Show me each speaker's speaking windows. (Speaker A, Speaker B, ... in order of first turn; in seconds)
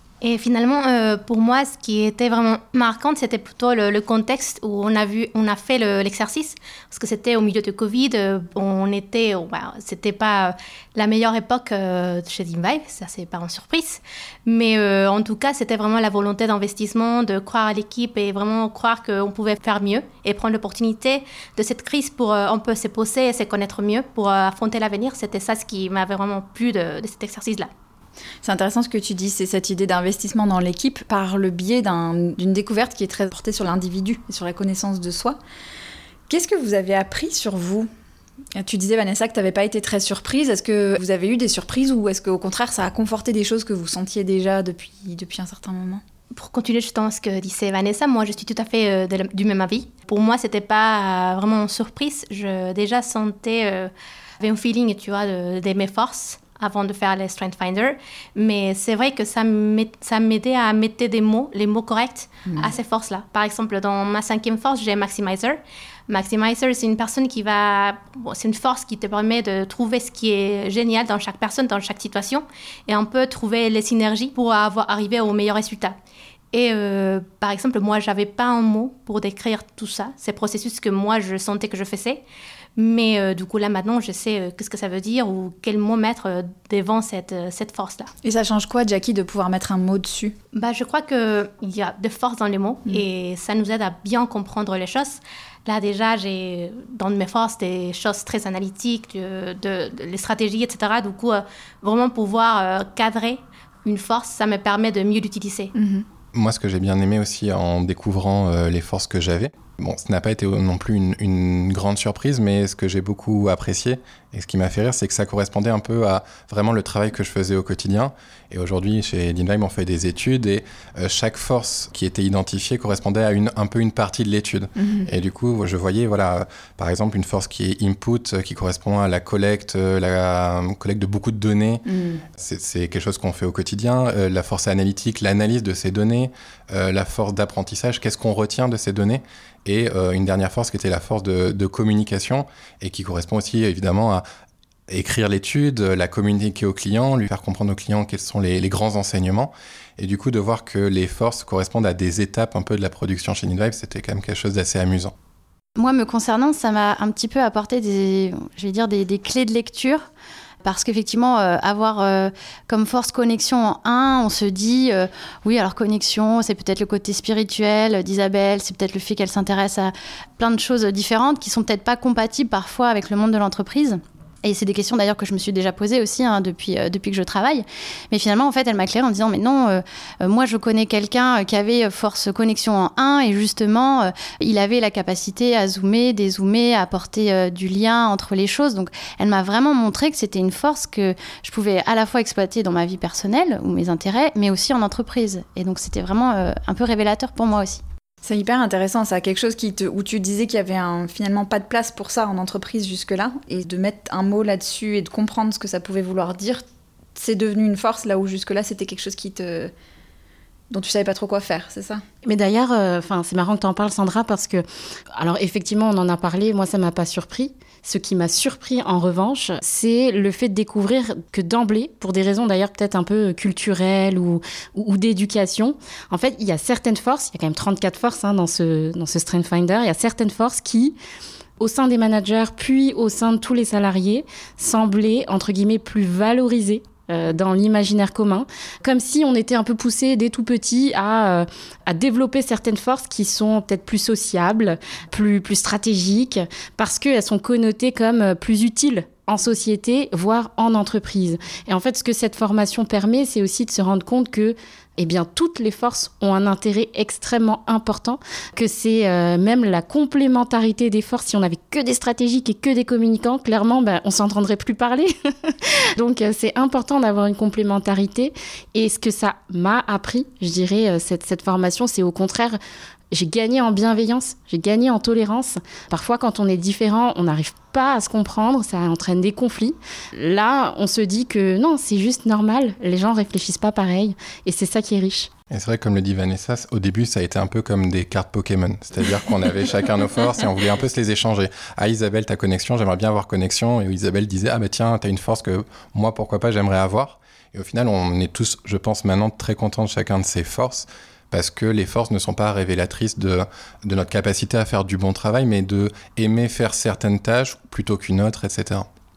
Speaker A: 0.2-27.7, 46.3-76.0, 76.5-82.2, 82.8-88.1, 90.5-105.7
Speaker B: 28.4-35.4, 36.3-37.9, 38.6-46.0, 88.2-90.4, 105.8-106.1, 124.8-125.1, 131.9-132.2, 198.2-206.6, 207.2-209.7, 210.7-212.0
Speaker C: 106.3-131.8, 132.4-144.2, 144.9-155.1, 285.5-308.9
Speaker D: 155.8-160.1, 160.6-197.8
Speaker E: 212.2-231.0, 231.6-272.6, 273.1-285.3